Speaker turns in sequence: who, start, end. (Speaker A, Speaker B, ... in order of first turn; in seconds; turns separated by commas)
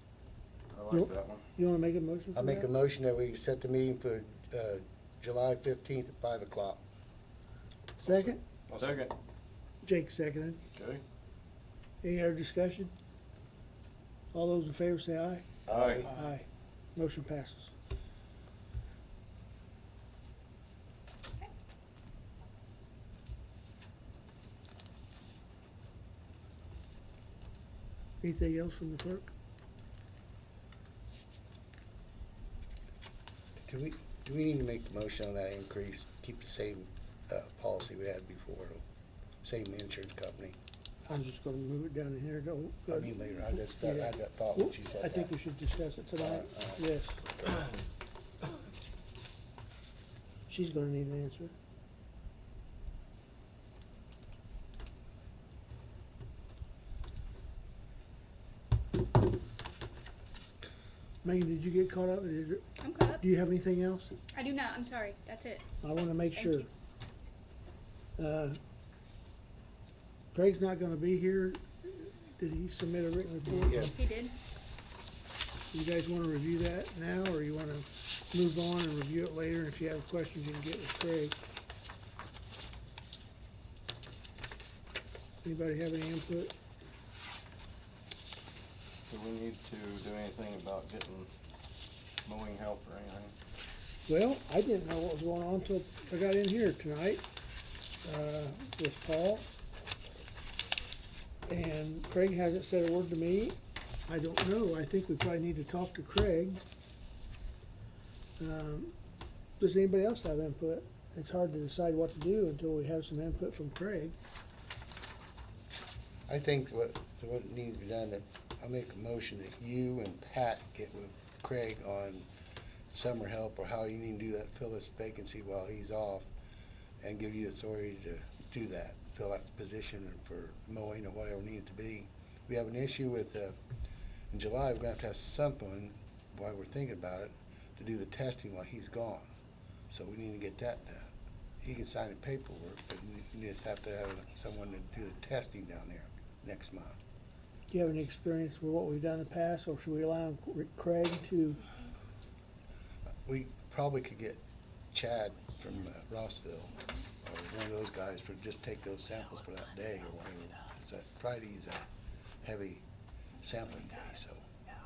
Speaker A: 0.7-1.4, Speaker B: 0.9-2.7, Speaker C: 2.3-6.8, Speaker B: 8.0-8.4, Speaker A: 8.1-9.1, Speaker B: 9.8-10.6, Speaker A: 10.8-11.0, Speaker B: 12.0-12.9, Speaker B: 14.3-15.5, Speaker C: 15.7-16.1, Speaker A: 15.7-16.1, Speaker B: 16.1-16.4, Speaker B: 17.0-17.7, Speaker B: 28.2-29.3, Speaker C: 33.6-38.8, Speaker C: 39.4-40.6, Speaker B: 41.1-47.3, Speaker C: 42.9-45.3, Speaker C: 46.2-46.8, Speaker B: 50.5-51.5, Speaker B: 61.2-62.7, Speaker D: 62.8-63.2, Speaker B: 63.2-64.2, Speaker D: 64.3-65.7, Speaker B: 65.8-66.7, Speaker D: 66.3-66.7, Speaker B: 68.2-68.6, Speaker B: 70.3-74.0, Speaker C: 73.6-74.0, Speaker D: 73.8-74.4, Speaker B: 75.7-81.4, Speaker B: 85.4-86.5, Speaker A: 89.1-91.3, Speaker A: 92.2-93.3, Speaker B: 94.1-97.2, Speaker B: 98.0-99.5, Speaker B: 101.5-106.6, Speaker B: 108.4-108.9, Speaker B: 109.6-114.2, Speaker C: 116.3-122.3, Speaker C: 122.9-126.3, Speaker C: 127.0-133.6, Speaker C: 134.3-139.3, Speaker C: 139.9-147.0, Speaker B: 147.7-151.6, Speaker C: 153.3-161.8, Speaker C: 162.4-162.8, Speaker C: 163.4-164.5